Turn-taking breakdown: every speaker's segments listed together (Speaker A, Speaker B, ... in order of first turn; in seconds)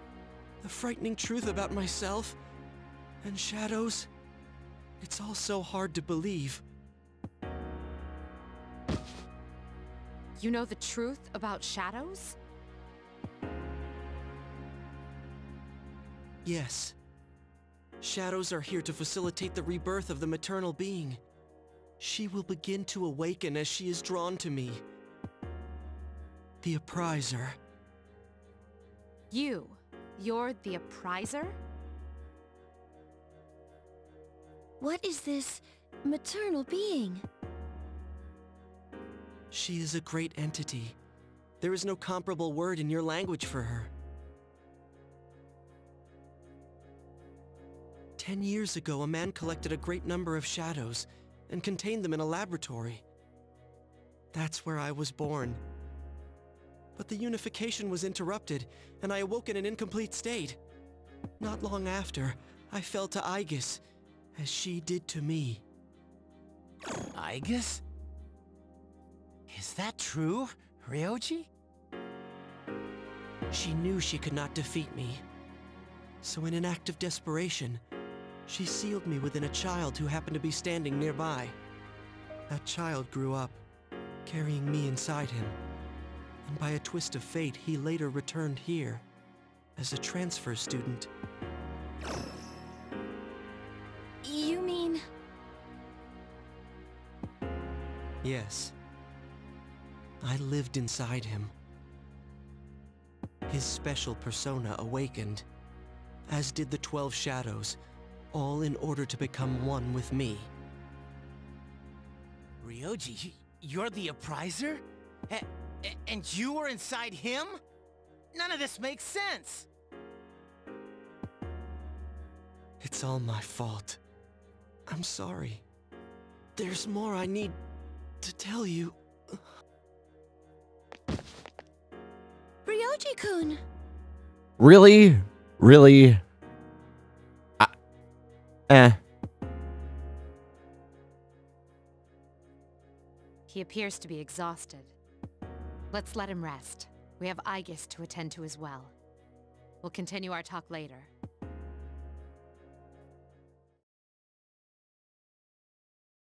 Speaker A: 0.6-2.4, 3.2-4.1, 5.0-6.6, 16.4-17.0, 18.0-21.2, 22.0-24.8, 26.6-27.6, 39.5-41.0, 41.6-43.9, 48.2-53.0, 54.3-55.6, 57.0-60.6, 61.4-63.8, 64.3-65.6, 73.5-75.2, 76.2-77.8, 78.5-81.6, 82.5-83.6, 84.3-85.6, 86.5-89.0, 89.8-91.1, 98.2-98.7, 100.2-101.5, 103.5-105.5, 106.3-107.8, 108.3-110.5, 122.8-124.0, 124.9-125.6, 126.6-127.6, 128.2-129.4
Speaker B: 10.4-12.4, 29.3-31.6, 143.5-144.9, 145.9-148.9, 149.8-151.1
Speaker C: 34.8-37.2, 94.2-95.0, 132.7-133.6
Speaker D: 67.1-67.8, 69.5-71.5, 112.6-117.6, 118.3-119.7
Speaker E: 134.6-136.2, 138.7-139.0